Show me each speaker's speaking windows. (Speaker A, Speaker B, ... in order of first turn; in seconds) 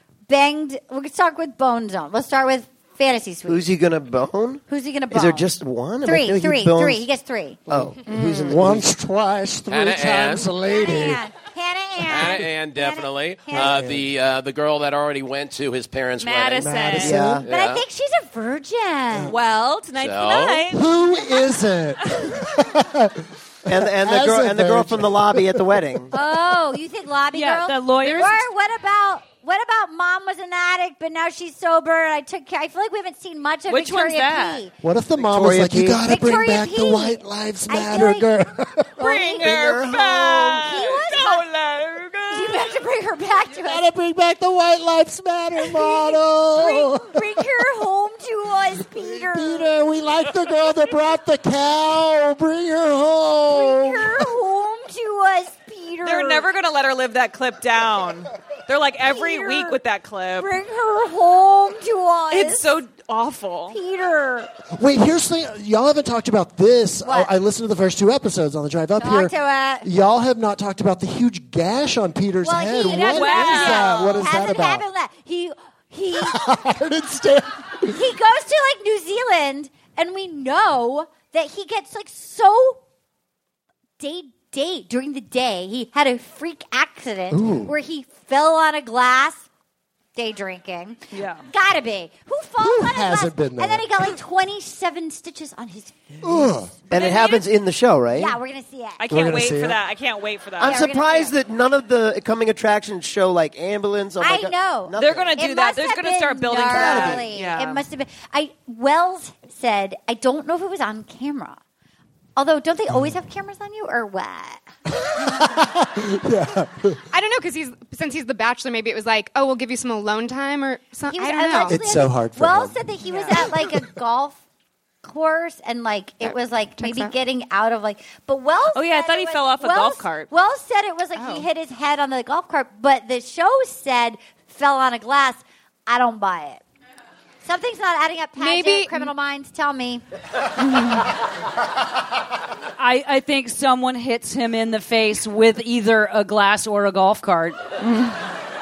Speaker A: 0.3-3.6, 4.7-5.5, 6.0-7.6, 10.7-13.8, 17.5-19.3, 26.1-34.7, 36.0-38.3, 39.0-39.5, 40.5-41.4, 42.3-43.8, 45.8-49.7, 53.5-56.5, 59.0-59.8, 60.4-62.7, 63.7-64.5, 67.0-67.3, 69.0-69.9, 72.4-76.5, 77.8-82.8, 84.0-89.4, 90.2-91.0, 91.5-97.4, 98.1-99.0, 100.6-101.3, 104.2-111.6, 112.3-114.6, 121.1-124.4, 125.0-136.6, 137.4-140.0
Speaker B: 3.5-7.0, 7.7-8.9, 16.9-17.4, 23.6-26.1, 35.2-36.0, 39.4-40.7, 96.9-98.4, 100.6-105.3
Speaker C: 7.7-11.2, 13.5-14.1, 16.6-17.4, 20.7-26.0, 34.8-39.0, 43.5-47.3, 48.8-54.3, 64.8-74.8, 76.1-78.0, 87.3-87.7, 92.6-93.9, 96.2-96.7, 99.1-99.8, 106.7-107.2, 115.0-117.0, 121.7-123.7
Speaker D: 8.1-8.6, 16.2-17.2, 19.3-20.9, 33.7-34.6, 39.0-42.8, 56.0-60.5, 62.3-63.8, 72.9-74.3, 91.1-91.4, 97.0-97.4, 99.0-100.8, 105.0-107.8, 123.1-123.4, 128.7-130.3, 140.7-140.9, 147.8-148.2
Speaker E: 9.7-10.5, 12.0-16.9, 17.4-17.8, 20.0-20.7
Speaker F: 27.3-28.4, 142.8-147.6
Speaker G: 117.1-121.8, 126.2-127.1, 131.1-131.5, 138.4-139.1